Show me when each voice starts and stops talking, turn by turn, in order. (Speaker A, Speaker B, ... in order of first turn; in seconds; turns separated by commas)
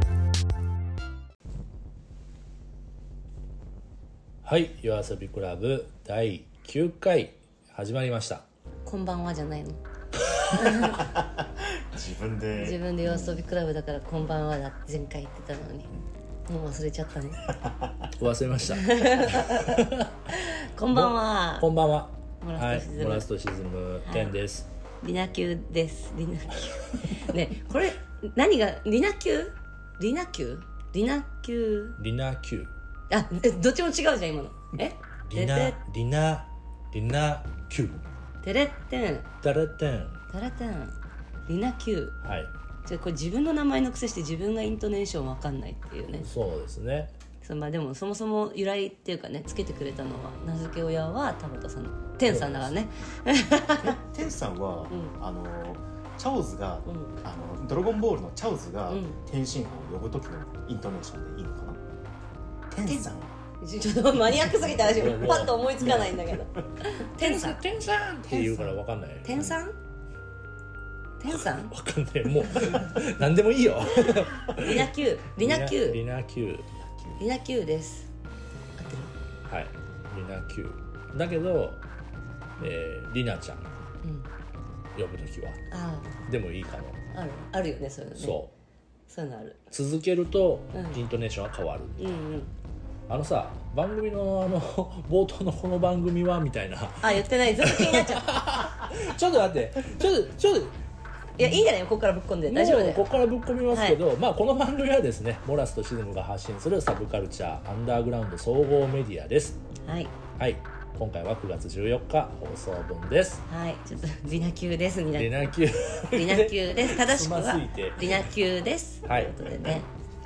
Speaker A: 4.4-8.4, Speaker B: 8.8-9.8, Speaker B: 10.5-11.0, Speaker C: 11.8-13.4, Speaker B: 12.5-15.9, Speaker B: 16.5-17.4, Speaker A: 18.1-20.1, Speaker B: 18.7-21.7, Speaker A: 20.9-24.7, Speaker B: 22.4-23.3, Speaker B: 24.1-24.3, Speaker B: 25.0-32.0, Speaker A: 32.0-32.7, Speaker B: 33.1-35.8, Speaker A: 35.2-38.0, Speaker B: 38.4-39.3, Speaker A: 39.4-40.2, Speaker B: 40.3-40.9, Speaker B: 41.5-42.2, Speaker A: 42.2-42.5, Speaker B: 42.9-46.3, Speaker A: 46.2-47.1, Speaker B: 47.4-54.0, Speaker A: 52.2-52.7, Speaker C: 53.8-61.8, Speaker B: 56.9-57.1, Speaker B: 58.9-59.2, Speaker C: 62.7-63.3, Speaker B: 63.6-67.6, Speaker A: 64.6-65.5, Speaker C: 65.8-66.3, Speaker A: 67.2-69.5, Speaker B: 69.2-69.7, Speaker B: 71.2-71.7, Speaker A: 71.3-76.7, Speaker B: 74.5-76.0, Speaker C: 76.8-77.1, Speaker B: 77.2-78.1, Speaker B: 78.8-79.1, Speaker A: 79.5-81.8, Speaker A: 82.6-83.7, Speaker A: 84.9-85.6, Speaker B: 85.7-86.1, Speaker A: 86.2-87.0, Speaker B: 87.1-88.4, Speaker A: 88.2-88.5, Speaker B: 89.1-89.6, Speaker A: 89.7-92.0, Speaker B: 90.7-91.0, Speaker B: 92.0-92.5, Speaker A: 93.1-100.8, Speaker B: 97.0-98.3, Speaker B: 101.4-103.0, Speaker A: 101.4-101.6, Speaker A: 102.5-109.6, Speaker B: 103.7-104.0, Speaker B: 109.8-110.1, Speaker A: 110.4-113.4, Speaker B: 113.5-115.3, Speaker A: 115.2-118.3, Speaker B: 116.1-119.9, Speaker A: 119.0-119.8